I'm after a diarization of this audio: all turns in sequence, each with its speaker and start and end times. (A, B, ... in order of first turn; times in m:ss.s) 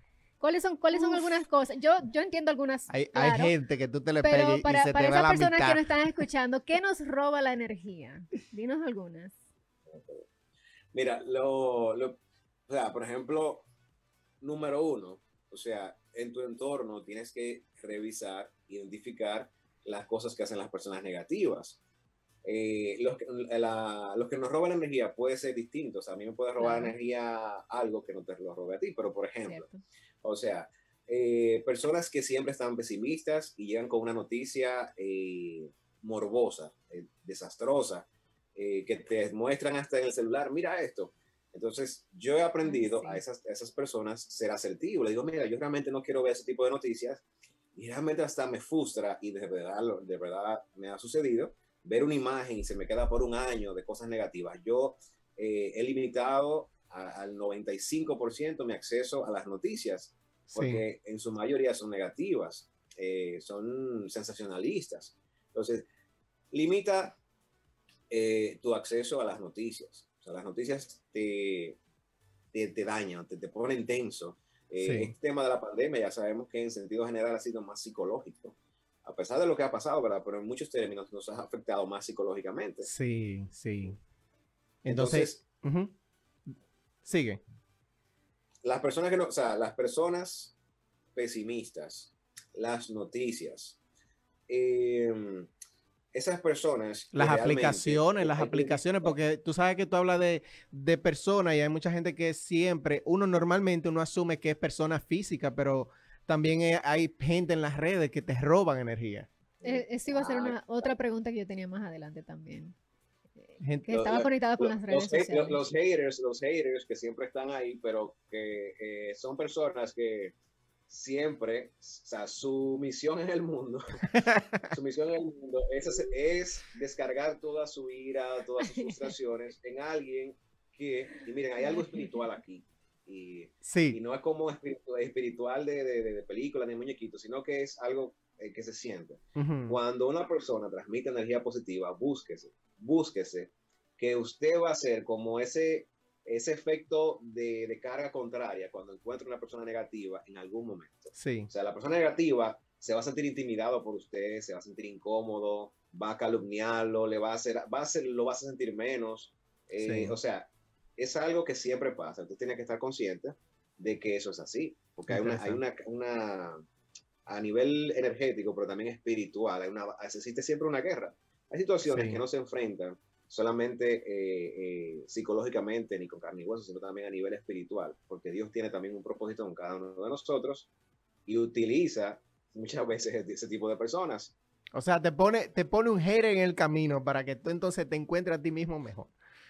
0:00.4-0:03.5 A
0:00.9-0:01.2 B
0:02.9-0:06.2 B
0:04.2-0:09.4 A
0:09.9-0:10.2 C
0:10.9-0:13.7 C
0:14.4-0:21.8 C
0:22.4-0:29.6 C
0:26.6-0:26.9 A
0:29.4-0:29.8 A
0:30.2-0:47.2 C
0:42.6-0:43.2 A
0:47.8-1:05.8 C
1:00.5-1:00.8 B
1:06.5-1:07.2 C
1:08.1-1:11.8 C
1:12.5-1:22.9 C
1:14.8-1:15.1 B
1:22.8-1:24.0 B
1:24.8-1:25.4 C
1:24.8-1:25.9 B
1:27.0-1:27.4 B
1:28.6-1:30.5 C
1:31.1-1:33.8 C
1:34.5-1:35.5 C
1:36.1-1:39.1 C
1:37.1-1:49.3 B
1:49.6-1:51.0 C
1:49.6-1:52.8 A
1:53.4-1:55.6 A
1:53.6-1:53.9 B
1:53.9-2:00.3 C
2:00.9-2:03.8 C
2:04.1-2:04.6 B
2:04.7-2:46.6 C
2:08.6-2:09.1 A
2:11.6-2:12.1 A
2:13.6-2:14.0 B
2:19.3-2:19.8 B
2:31.1-2:31.5 B
2:39.8-2:40.1 B
2:45.1-2:45.6 B
2:47.2-3:00.7 C
2:51.9-2:52.2 B
3:01.3-3:04.3 C
3:04.7-3:09.1 B